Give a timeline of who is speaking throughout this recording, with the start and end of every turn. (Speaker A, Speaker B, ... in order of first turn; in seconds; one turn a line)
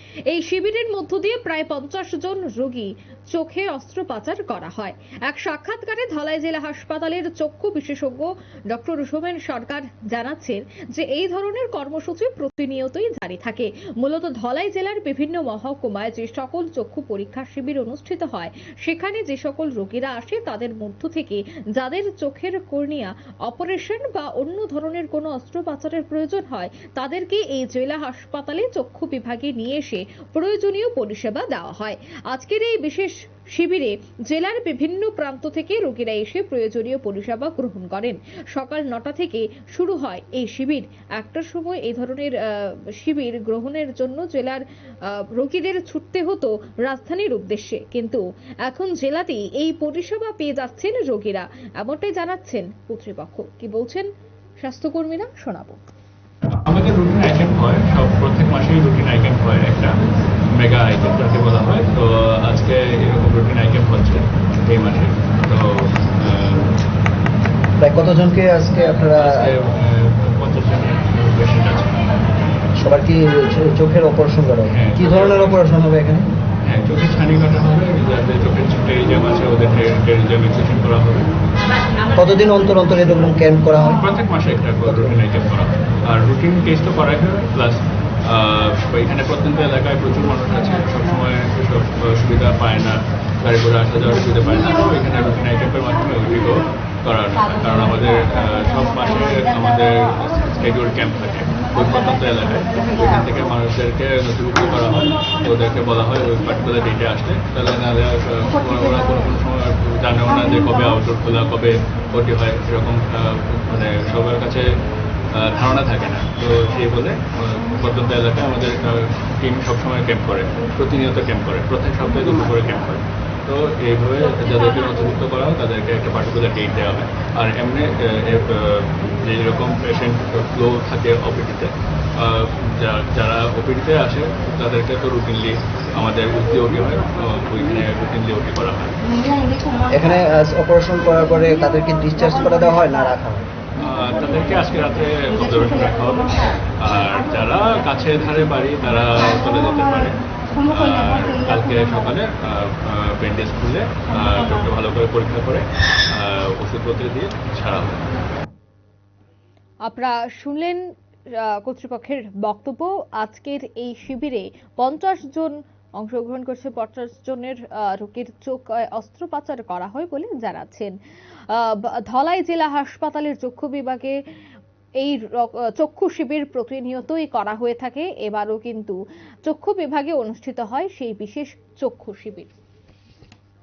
Speaker A: 0.3-54.1
Speaker A: 54.6-55.8
Speaker B: 56.5-60.0
Speaker B: 60.5-66.8
Speaker C: 67.8-69.5
Speaker B: 69.2-72.0
Speaker C: 72.8-76.3
Speaker B: 74.7-75.8
Speaker B: 76.6-81.3
Speaker C: 82.2-84.1
Speaker B: 83.9-114.8
Speaker C: 84.8-85.2
Speaker B: 115.3-139.0
Speaker C: 139.9-143.4
Speaker B: 143.8-158.1
Speaker A: 159.9-160.8
Speaker A: 161.3-170.9
Speaker A: 171.5-174.2
Speaker A: 175.0-182.5